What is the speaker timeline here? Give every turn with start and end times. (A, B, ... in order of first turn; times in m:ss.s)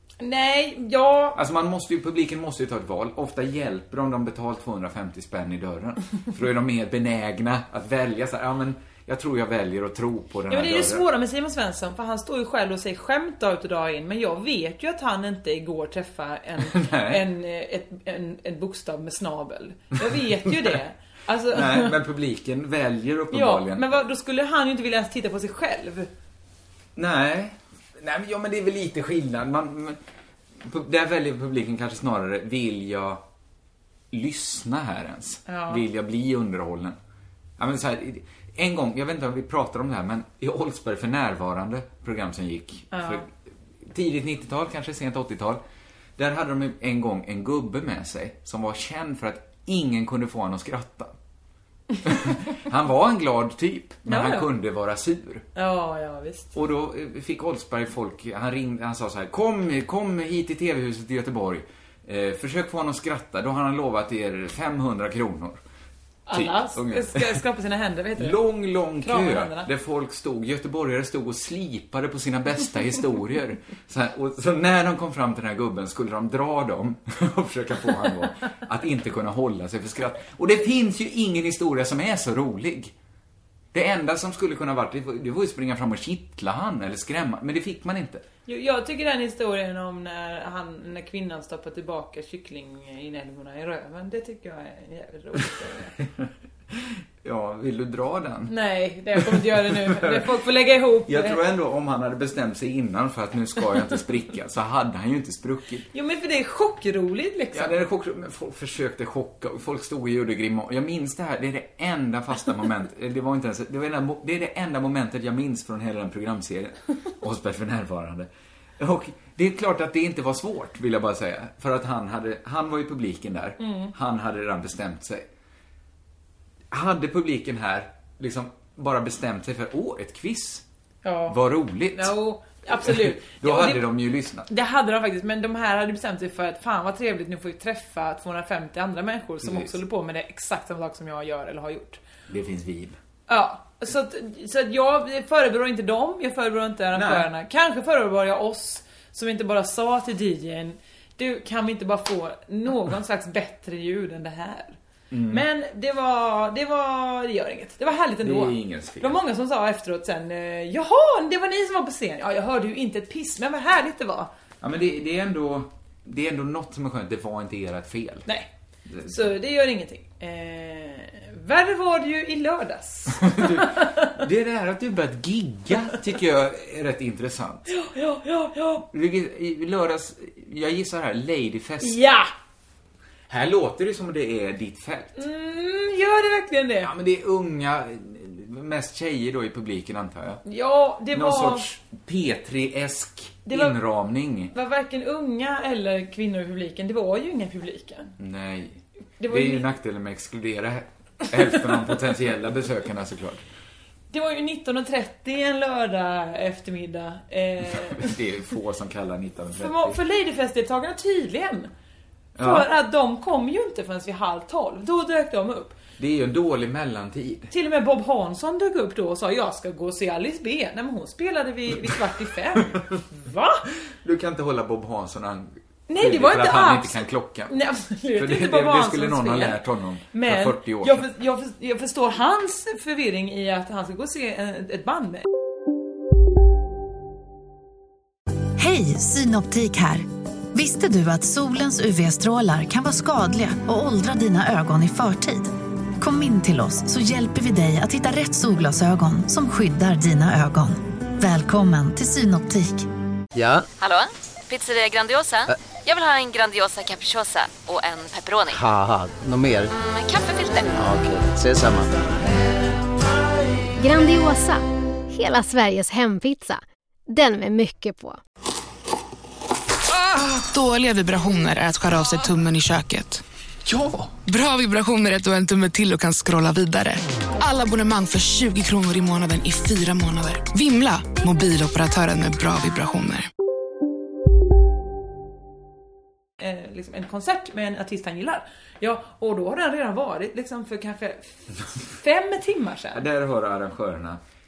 0:00.2-0:01.4 A
0:01.3-0:11.0 B
0:10.5-0:21.9 A
0:16.6-0:17.2 B
0:20.1-0:20.7 B
0:21.5-0:23.9 B
0:23.3-0:26.1 A
0:27.0-0:30.0 B
0:30.6-0:33.2 B
0:34.1-0:37.0 B
0:35.5-0:35.8 A
0:37.6-0:43.3 B
0:42.9-0:43.2 A
0:43.8-0:45.6 B
0:46.2-0:51.1 B
0:52.0-0:55.4 B
0:54.0-0:54.5 A
0:55.5-0:56.5 A
0:56.5-1:05.6 B
1:06.3-1:08.4 A
1:06.3-1:07.4 B
1:08.2-1:22.9 B
1:09.0-1:09.7 A
1:23.7-1:28.2 B
1:28.4-1:35.9 A
1:36.0-1:38.5 B
1:38.5-1:41.4 A
1:39.1-1:40.3 B
1:41.1-1:45.9 B
1:45.9-1:47.8 A
1:47.5-2:05.2 B
2:03.6-2:03.9 A
2:06.7-2:10.6 B
2:11.0-2:11.4 A
2:11.3-2:14.5 B
2:11.9-2:13.8 A
2:14.5-2:22.0 A
2:19.4-2:19.7 B
2:22.3-2:23.0 B
2:23.3-2:34.8 A
2:26.9-2:27.3 B
2:35.1-2:35.4 B
2:35.3-2:44.3 A
2:38.2-2:39.2 B
2:44.6-2:48.3 B
2:48.9-2:49.1 B
2:49.0-2:54.1 A
2:53.1-2:57.7 B
2:57.7-2:58.8 A
2:58.9-3:02.0 B
3:01.8-3:02.3 A
3:03.3-3:05.2 B
3:05.2-3:06.9 A
3:06.8-3:10.4 B
3:10.4-3:11.6 A
3:11.1-3:14.5 B
3:13.5-3:13.7 A
3:14.5-3:18.1 A
3:18.2-3:23.4 B
3:19.2-3:19.6 A
3:24.1-3:28.1 A
3:27.7-3:30.0 B
3:29.6-3:31.7 A
3:32.4-3:32.7 B
3:32.4-3:35.8 A
3:36.0-3:37.5 B
3:37.5-3:43.6 A
3:44.0-3:47.6 B
3:45.9-3:49.6 A
3:48.1-3:51.1 B
3:50.1-3:55.2 A
3:58.6-4:12.8 C
4:13.3-4:13.7 D
4:13.8-4:18.6 E
4:18.5-4:19.7 D
4:19.7-4:20.8 E
4:20.8-4:21.9 D
4:23.8-4:28.2 F
4:30.1-4:33.2 G
4:33.7-4:34.1 B
4:34.2-4:43.3 G
4:46.4-4:53.0 A
4:52.9-4:54.2 B